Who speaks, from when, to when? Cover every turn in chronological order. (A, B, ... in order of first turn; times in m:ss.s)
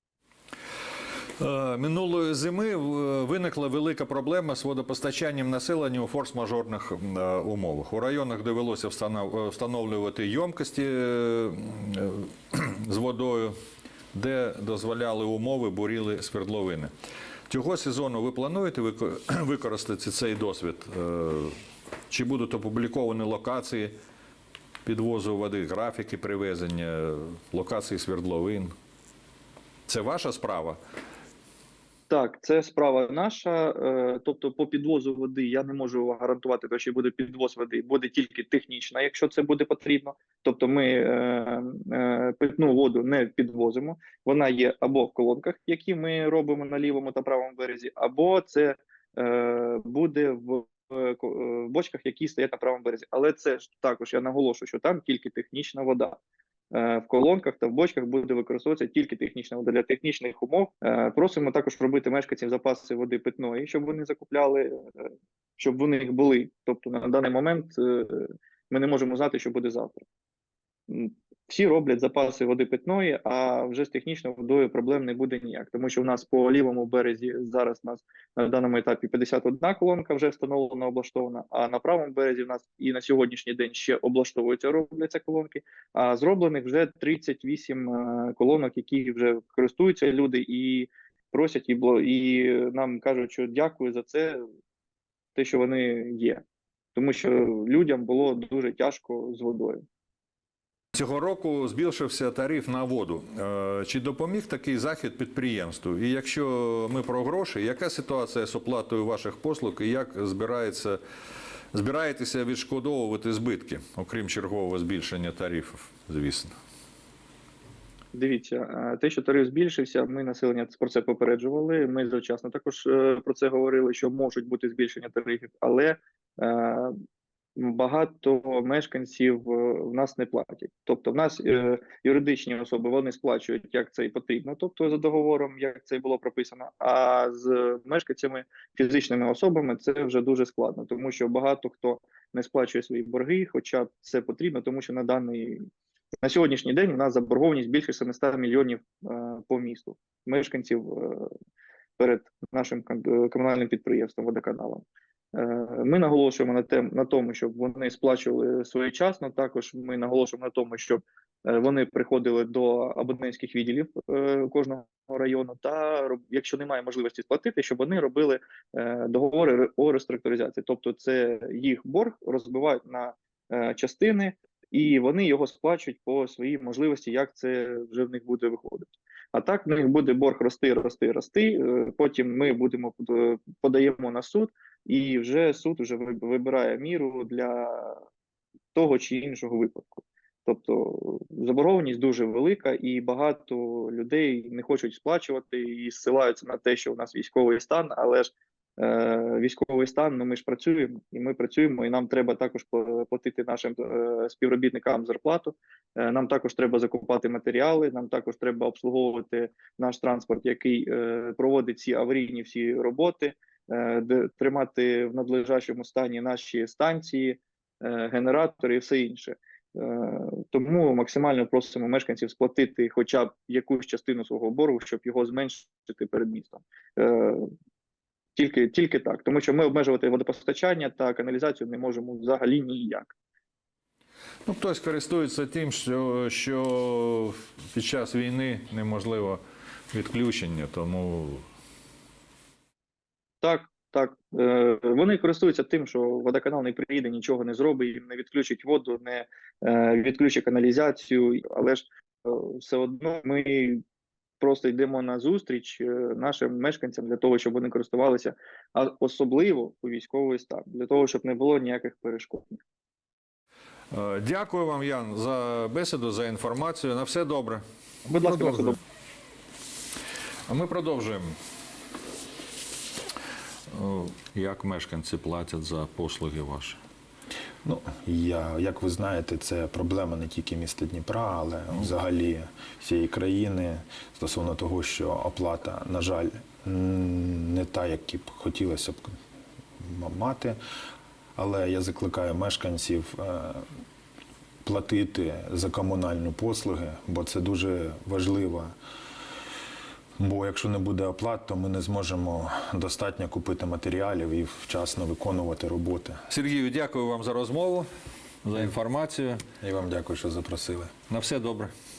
0:01.4-0:13.6 A
0:14.1-0:16.9 A
0:17.5-0:21.6 A
0:22.1-0:23.9 A
0:24.8-0:28.7 A
0:29.9-0:30.8 A
0:32.1-0:56.2 B
0:56.7-1:10.0 B
1:10.9-1:34.4 B
1:35.4-1:36.4 B
1:37.0-1:39.8 B
1:40.9-1:51.0 A
1:51.7-1:56.6 A
1:58.1-2:06.9 B
2:07.6-2:25.6 B
2:26.2-2:31.3 B
2:32.0-3:08.0 B
3:08.7-3:47.5 B
3:48.4-3:53.1 B
3:54.4-3:59.4 A
3:59.9-4:01.4 A
4:03.4-4:13.8 B
4:14.4-4:22.6 B
4:23.9-4:28.8 A
4:28.1-4:28.8 B
4:30.5-4:31.4 A
4:33.7-4:36.8 A
4:37.6-4:49.2 C
4:49.8-4:50.6 C
4:51.4-4:53.7 C
4:54.6-4:58.7 C
5:00.2-5:06.2 C
5:06.3-5:07.9 A
5:08.4-5:09.4 A
5:09.6-5:10.9 C
5:11.1-5:11.7 A